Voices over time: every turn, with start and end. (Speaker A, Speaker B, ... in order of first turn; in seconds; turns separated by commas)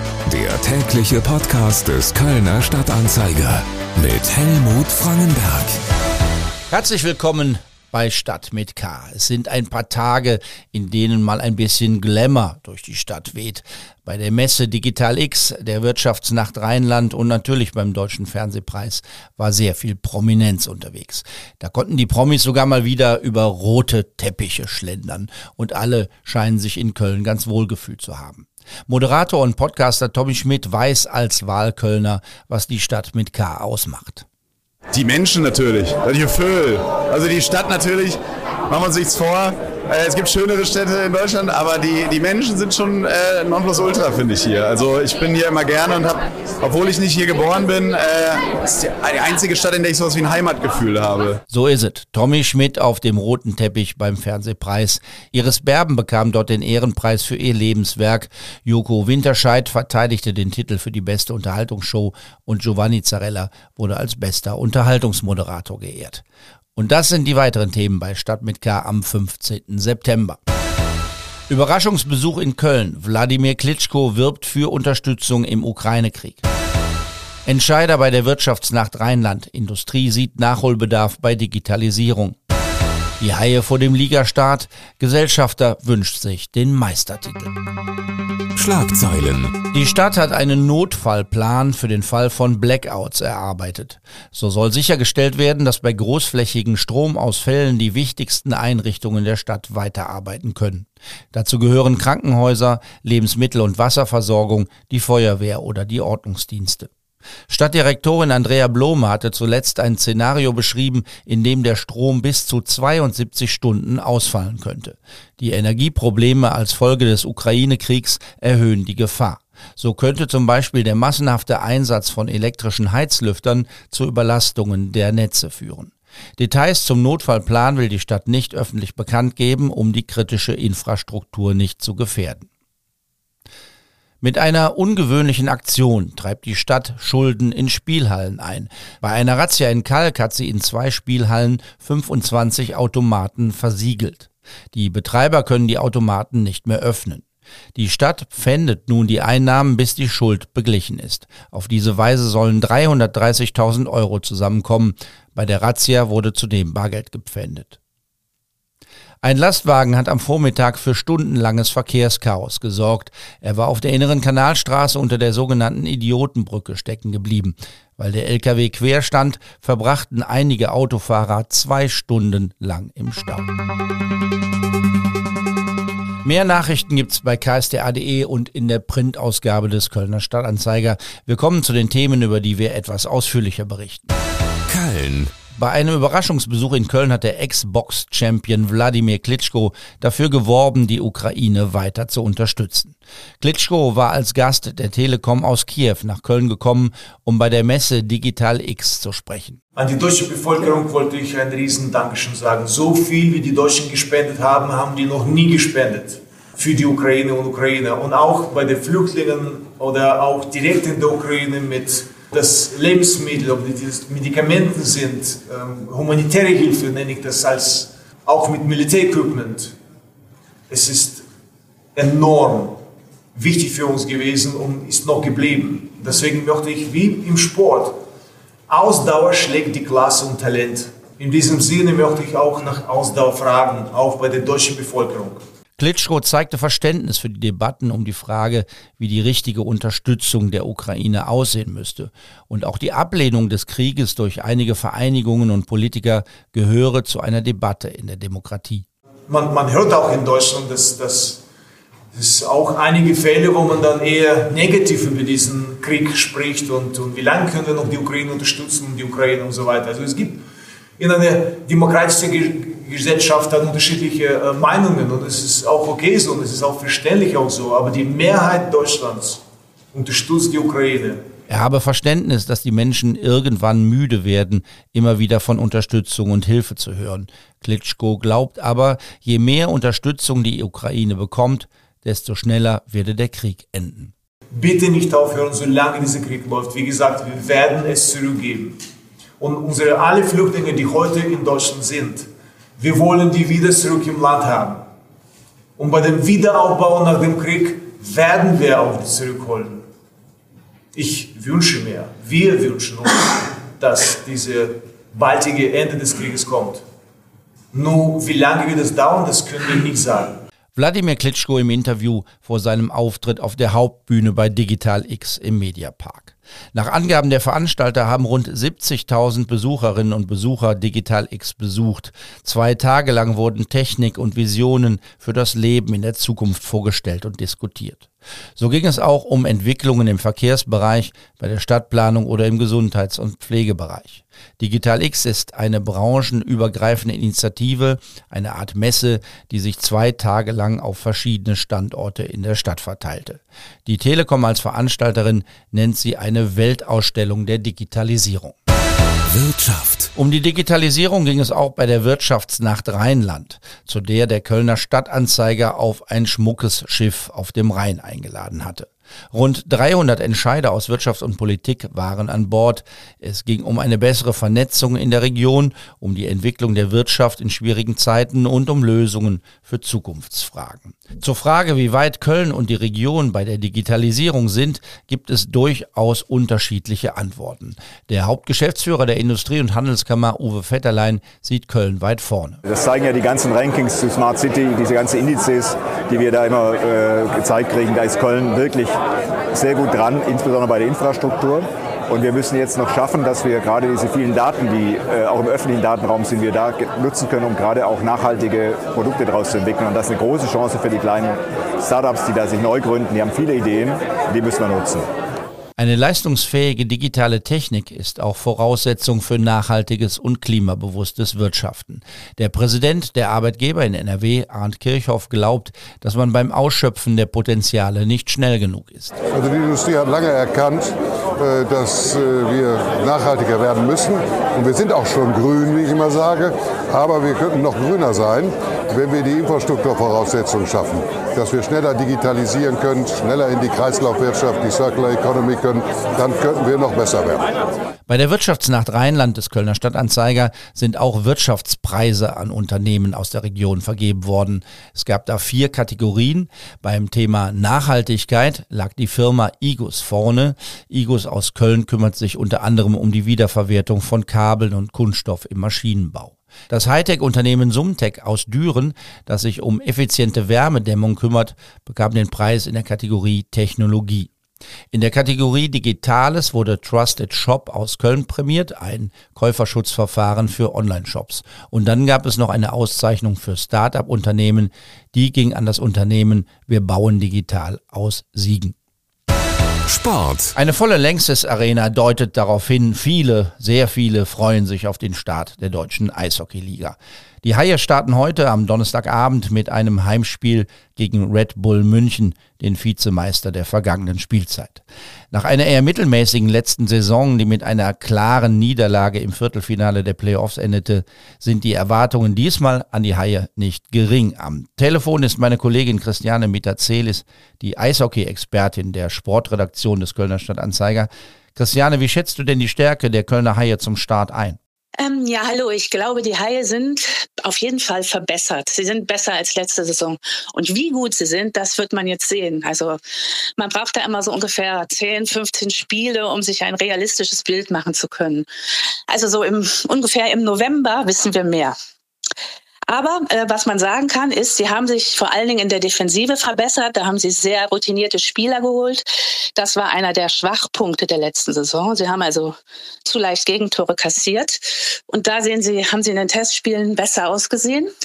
Speaker A: 0.2-5.8, Speaker B: 6.7-34.3, Speaker C: 35.0-51.4, Speaker B: 51.5-66.2, Speaker B: 66.8-70.4, Speaker B: 71.5-76.5, Speaker B: 77.5-82.4, Speaker B: 83.2-87.5, Speaker A: 88.6-89.5, Speaker B: 89.7-106.9, Speaker B: 107.5-132.5, Speaker B: 134.2-147.2, Speaker B: 147.8-157.8, Speaker B: 159.2-173.5, Speaker B: 176.2-184.1, Speaker A: 184.7-185.3, Speaker B: 185.5-199.6, Speaker D: 199.8-219.8, Speaker D: 220.7-221.2, Speaker D: 221.9-222.8, Speaker D: 223.3-228.0, Speaker D: 228.7-235.4, Speaker B: 235.8-248.8, Speaker D: 249.3-251.4, Speaker D: 252.1-260.4, Speaker D: 261.0-269.4, Speaker D: 269.9-271.2, Speaker B: 271.5-284.1, Speaker D: 284.5-288.8, Speaker D: 289.4-292.3, Speaker D: 292.8-294.8, Speaker D: 295.8-299.8, Speaker D: 300.9-306.8, Speaker D: 307.7-310.4, Speaker B: 310.8-348.6, Speaker A: 349.3-350.1, Speaker B: 350.2-382.6, Speaker E: 382.6-389.0, Speaker E: 389.5-405.1, Speaker B: 405.8-419.1, Speaker F: 419.3-437.5, Speaker B: 438.1-464.3, Speaker B: 464.9-478.7, Speaker A: 479.9-480.5, Speaker B: 480.6-514.6, Speaker G: 515.0-523.0, Speaker G: 523.6-528.5, Speaker G: 529.1-531.8, Speaker G: 532.9-547.9